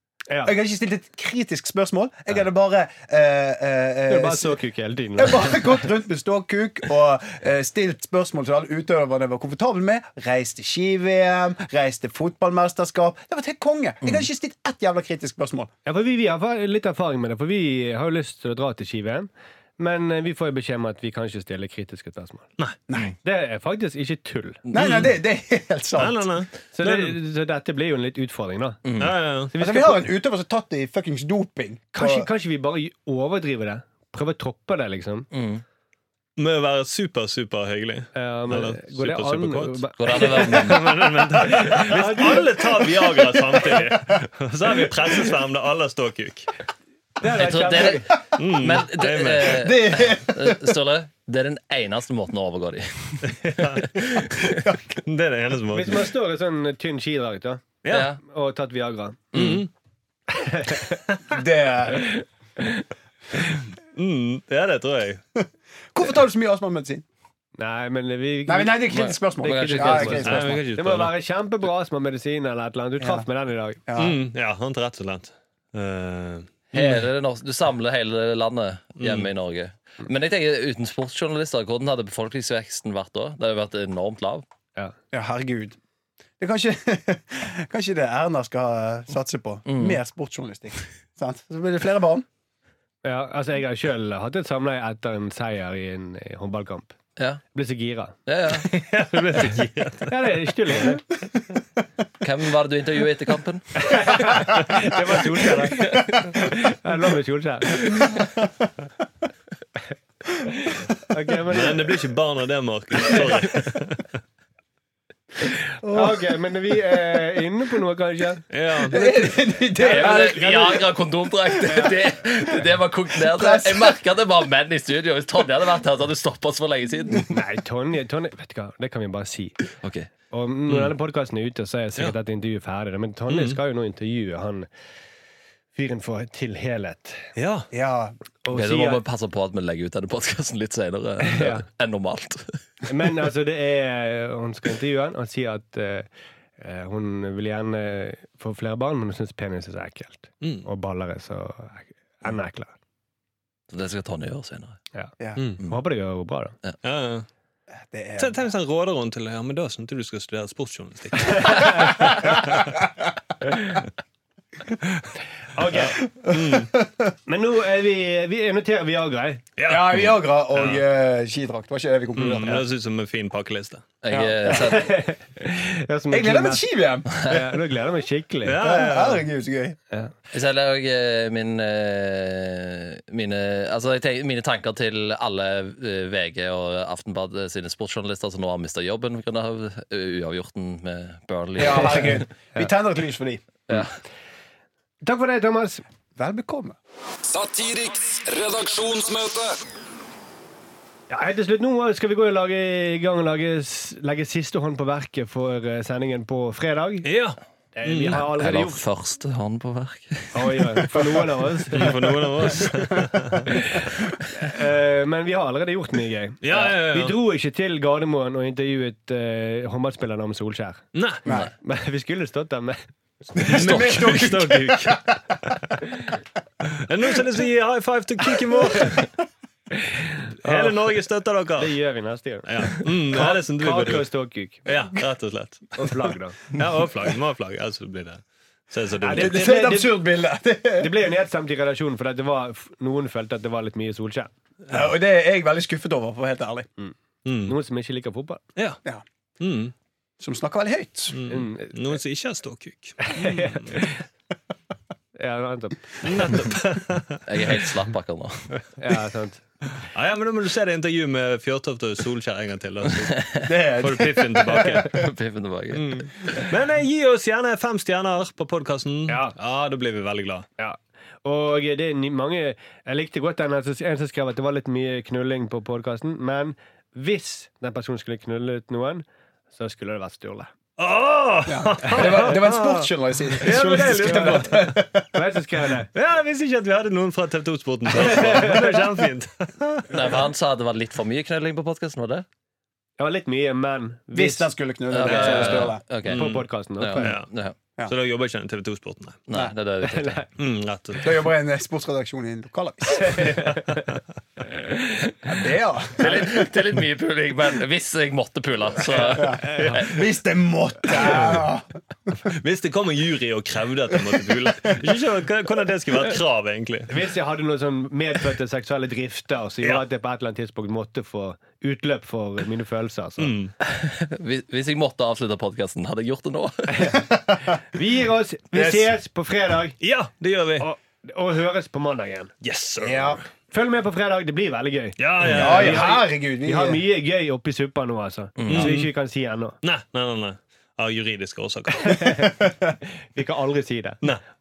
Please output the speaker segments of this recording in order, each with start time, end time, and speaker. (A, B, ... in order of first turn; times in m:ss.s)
0:00.4-0:04.6 A
0:04.1-0:05.9 B
0:05.2-0:15.7 A
0:15.8-0:22.5 B
0:22.9-0:23.1 A
0:23.2-0:24.6 B
0:24.7-0:26.2 A
0:24.7-0:25.1 C
0:26.0-0:27.2 C
0:26.7-0:28.8 B
0:28.8-0:29.1 D
0:29.0-0:29.5 C
0:29.5-0:30.1 B
0:29.6-0:32.3 A
0:31.9-0:35.3 B
0:35.3-0:35.6 D
0:36.4-0:46.5 C
0:38.1-0:40.7 B
0:40.0-0:40.9 D
0:41.5-0:42.5 B
0:47.2-0:48.1 B
0:47.2-0:54.2 D
0:48.4-0:49.7 C
0:49.4-0:50.8 A
0:53.2-0:54.0 C
0:54.5-0:54.9 A
0:55.0-0:56.1 C
0:55.7-0:57.6 B
0:57.8-0:58.1 C
0:57.9-0:58.2 D
0:58.2-0:59.2 B
0:59.3-0:59.7 D
0:59.3-0:59.7 C
1:00.3-1:01.0 B
1:01.3-1:02.1 A
1:02.1-1:02.8 B
1:03.9-1:05.2 C
1:05.9-1:07.0 A
1:07.6-1:13.8 B
1:08.4-1:10.6 A
1:08.9-1:10.6 D
1:10.2-1:11.2 C
1:13.0-1:13.3 A
1:13.9-1:14.2 A
1:14.0-1:17.0 C
1:16.7-1:24.4 D
1:19.0-1:19.3 C
1:25.1-1:25.8 A
1:26.4-1:32.2 A
1:29.6-1:30.0 D
1:33.0-1:36.9 B
1:37.5-1:38.2 B
1:38.2-1:38.7 D
1:38.5-1:40.3 C
1:40.1-1:41.0 B
1:42.2-1:44.0 D
1:43.8-1:48.2 B
1:45.7-1:46.1 D
1:47.9-1:48.5 A
1:50.4-1:52.0 B
1:51.5-1:54.1 C
1:55.8-1:56.3 A
1:55.8-1:58.4 B
1:58.5-1:59.2 C
1:58.8-2:00.7 A
1:59.8-2:07.4 D
1:59.8-2:00.8 B
2:01.6-2:02.0 B
2:03.2-2:04.0 A
2:07.3-2:09.6 B
2:09.8-2:10.1 D
2:10.3-2:14.7 B
2:13.3-2:13.6 C
2:15.7-2:17.2 B
2:17.4-2:17.7 C
2:17.7-2:18.2 A
2:18.4-2:19.0 B
2:18.5-2:22.6 D
2:21.2-2:21.6 B
2:22.9-2:26.1 B
2:26.6-2:32.7 B
2:30.4-2:30.7 C
2:33.7-2:34.8 D
2:34.9-2:36.6 B
2:35.4-2:35.6 C
2:36.8-2:37.2 C
2:37.8-2:38.4 A
2:38.2-2:42.6 C
2:41.4-2:41.7 B
2:45.5-2:46.0 B
2:46.2-2:47.1 A
2:46.3-2:46.7 C
2:47.3-2:49.4 B
2:49.6-2:50.8 C
2:49.7-2:52.6 A
2:52.2-2:53.9 C
2:54.0-2:54.9 D
2:54.1-2:54.6 A
2:54.4-2:58.6 B
2:56.1-2:57.2 A
2:57.1-2:57.6 D
2:58.4-2:59.2 C
2:58.6-2:59.8 A
3:00.3-3:12.2 D
3:11.6-3:13.4 A
3:15.0-3:15.8 B
3:16.2-3:16.8 A
3:17.2-3:19.6 E
3:21.1-3:27.1 B
3:27.0-3:28.2 C
3:27.8-3:28.8 B
3:28.2-3:31.1 D
3:30.3-3:31.9 B
3:31.7-3:33.4 C
3:33.5-3:40.9 B
3:36.4-3:37.2 C
3:40.9-3:41.2 C
3:41.6-3:42.8 B
3:43.3-3:45.2 A
3:43.5-3:45.0 C
3:43.6-3:44.1 D
3:46.8-3:49.1 C
3:49.7-3:50.8 B
3:50.4-3:51.7 C
3:51.6-3:54.6 B
3:52.4-3:54.1 C
3:54.6-3:59.4 C
3:55.8-3:56.4 B
3:59.0-4:00.0 B
3:59.0-4:00.9 A
4:00.8-4:04.3 B
4:04.7-4:06.7 A
4:06.8-4:08.4 B
4:07.2-4:07.5 C
4:09.4-4:09.7 C
4:10.2-4:11.2 A
4:11.1-4:13.8 C
4:11.3-4:11.9 B
4:13.0-4:14.0 B
4:15.2-4:16.0 B
4:16.0-4:17.2 C
4:17.2-4:18.5 D
4:18.8-4:19.4 B
4:19.9-4:25.0 C
4:23.4-4:24.9 A
4:24.9-4:26.1 D
4:25.7-4:30.5 C
4:29.1-4:29.3 B
4:30.6-4:40.5 B
4:40.8-4:44.8 C
4:41.5-4:45.1 A
4:44.0-4:44.6 B
4:45.1-4:45.9 B
4:45.9-4:50.0 C
4:48.0-4:48.8 B
4:49.9-4:52.2 D
4:53.0-4:57.2 B
4:54.1-4:55.8 A
4:54.9-4:57.6 D
4:56.0-4:57.3 C
4:57.8-4:59.2 C
4:59.3-5:00.2 D
4:59.8-5:00.3 B
5:00.4-5:01.3 C
5:01.0-5:03.4 A
5:02.9-5:03.8 B
5:04.6-5:05.1 B
5:05.2-5:06.5 A
5:06.0-5:09.9 D
5:09.0-5:11.7 A
5:09.1-5:09.9 C
5:09.4-5:09.8 B
5:12.3-5:16.9 C
5:16.9-5:23.3 B
5:23.2-5:23.5 C
5:23.6-5:27.0 D
5:26.7-5:27.0 B
5:27.0-5:27.5 A
5:27.7-5:29.8 B
5:28.5-5:28.9 A
5:29.8-5:30.7 C
5:30.6-5:32.3 B
5:32.4-5:33.3 C
5:32.8-5:33.2 A
5:33.5-5:39.6 B
5:35.0-5:35.9 C
5:35.2-5:36.8 A
5:38.4-5:38.8 D
5:38.5-5:38.9 C
5:39.6-5:42.1 C
5:41.8-5:42.4 B
5:43.1-5:44.0 B